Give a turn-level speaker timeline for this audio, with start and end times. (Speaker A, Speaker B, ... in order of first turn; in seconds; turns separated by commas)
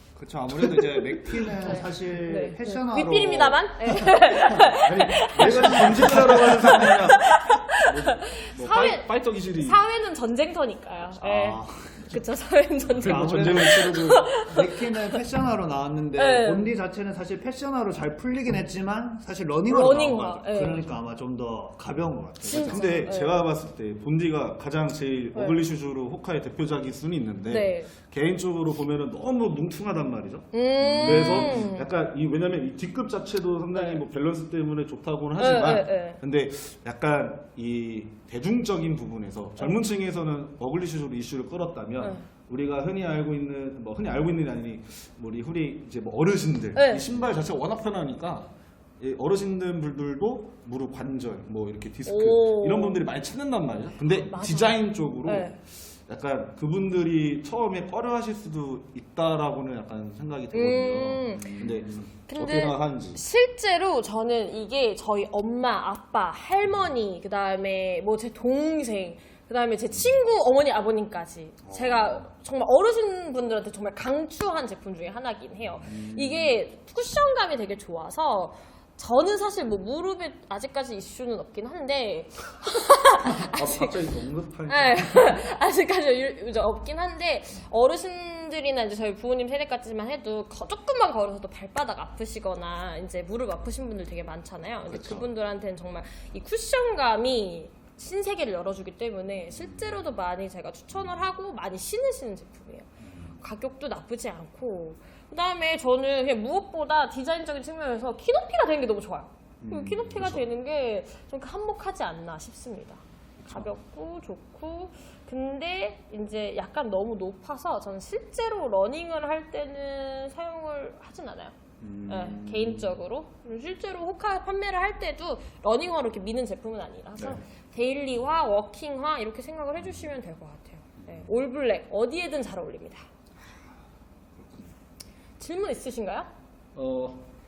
Speaker A: 0.1-4.0, Speaker B: 0.5-1.7, Speaker C: 1.5-15.2, Speaker B: 4.8-9.8, Speaker A: 5.3-7.0, Speaker A: 11.2-12.2, Speaker B: 13.0-14.3, Speaker A: 13.0-13.8, Speaker A: 14.4-23.1, Speaker C: 16.1-16.7, Speaker C: 19.7-20.9, Speaker C: 22.4-23.4, Speaker B: 22.5-63.2, Speaker C: 25.3-25.6, Speaker C: 27.4-27.9, Speaker C: 30.5-31.9, Speaker C: 33.7-34.0, Speaker C: 35.4-36.2, Speaker C: 42.0-42.2, Speaker C: 46.7-47.0, Speaker C: 52.0-53.0, Speaker C: 54.0-55.6, Speaker C: 60.5-61.6, Speaker A: 61.4-62.1, Speaker C: 62.3-83.9, Speaker A: 71.6-72.1, Speaker B: 75.9-76.4, Speaker B: 83.2-85.4, Speaker C: 84.7-102.9, Speaker B: 94.9-95.2, Speaker C: 103.4-121.5, Speaker A: 109.6-110.1, Speaker B: 110.1-110.4, Speaker A: 121.8-122.8, Speaker C: 122.0-133.0, Speaker B: 134.4-134.7, Speaker C: 135.4-136.3, Speaker B: 136.8-137.3